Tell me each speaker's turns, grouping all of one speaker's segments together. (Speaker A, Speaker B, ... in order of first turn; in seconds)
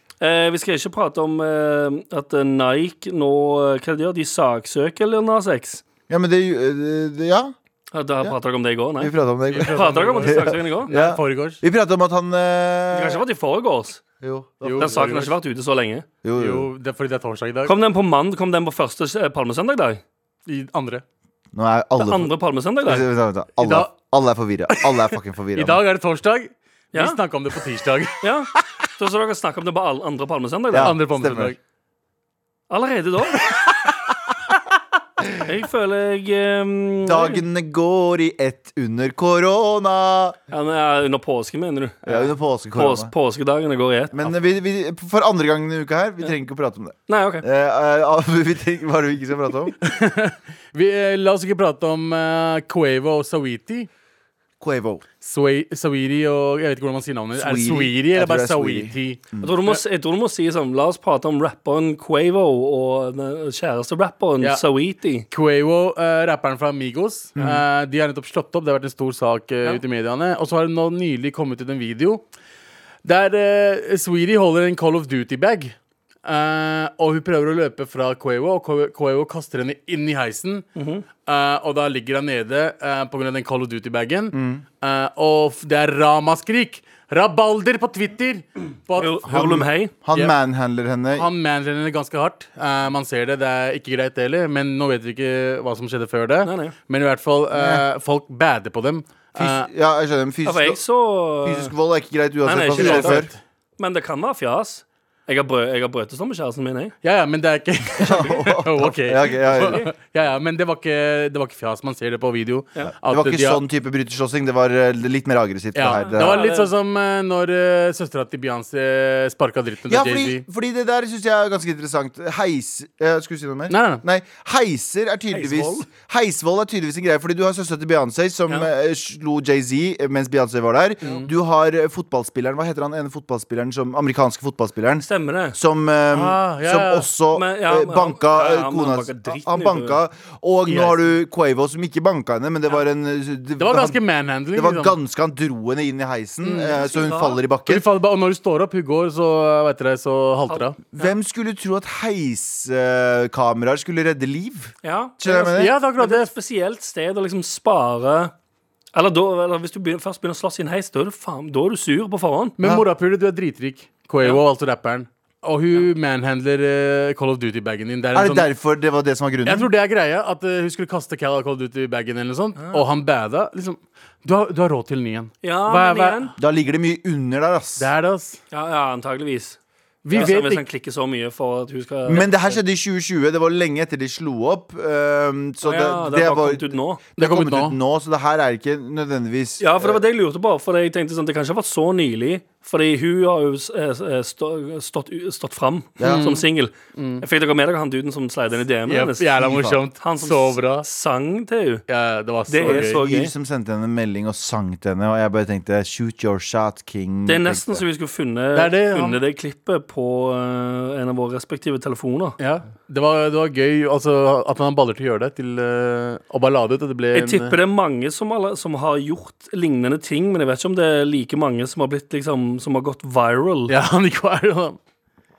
Speaker A: 0.2-5.8, 7.9-10.9, 12.9-14.0, 14.8-16.1, 17.6-20.0, 22.0-23.1, 28.2-30.9, 32.7-33.5, 35.4-37.4, 40.5-44.2, 47.1-47.5, 59.4-65.2, 80.8-81.0, 89.0-89.9, 96.4-96.7, 100.5-101.7, 102.4-103.3, 103.8-106.9, 109.5-109.9, 115.9-116.7, 125.3-125.9, 135.0-135.6, 137.3-140.0, 146.8-147.4, 150.5-151.1, 154.8-158.3, 158.9-162.6, 172.6-172.8, 175.4-176.3, 178.5-179.6, 180.1-182.6, 185.6-187.0, 189.6-199.4, 200.0-201.8, 202.5-203.3, 207.2-212.4, 217.1-223.7
Speaker B: 6.1-7.5, 9.0-13.2, 14.2-15.1, 16.2-16.7, 21.5-22.3, 22.8-25.8, 30.7-31.5, 37.0-40.4, 42.0-43.1, 44.1-49.8, 54.6-55.0, 57.3-59.5, 67.3-67.6, 84.3-84.6, 89.2-91.3, 97.5-97.8, 99.3-100.8, 101.4-103.3, 108.0-109.8, 113.0-116.4, 119.9-144.0, 144.5-147.8, 150.8-155.7, 162.6-162.8, 168.1-169.7, 176.4-177.9, 182.1-190.0, 196.0-196.4, 199.4-199.8, 202.6-207.8
Speaker C: 9.5-11.6, 14.6-15.3, 16.4-17.8, 20.4-21.0, 23.6-23.9, 25.6-28.3, 30.8-31.6, 49.8-53.9, 55.2-59.8, 65.3-72.2, 73.0-75.7, 76.2-80.7, 81.2-89.3, 91.1-99.7, 102.7-103.4, 107.0-113.6, 115.7-120.4, 123.7-124.0, 131.0-131.3, 136.1-137.1, 140.7-141.0, 143.6-145.0, 146.4-146.8, 147.7-150.8, 155.4-156.3, 162.6-168.5, 169.4-176.3, 177.8-178.4, 180.0-180.6, 187.2-187.8, 196.0-197.2, 198.9-200.8, 201.9-203.0, 208.5-209.2, 212.4-217.6, 223.7-224.8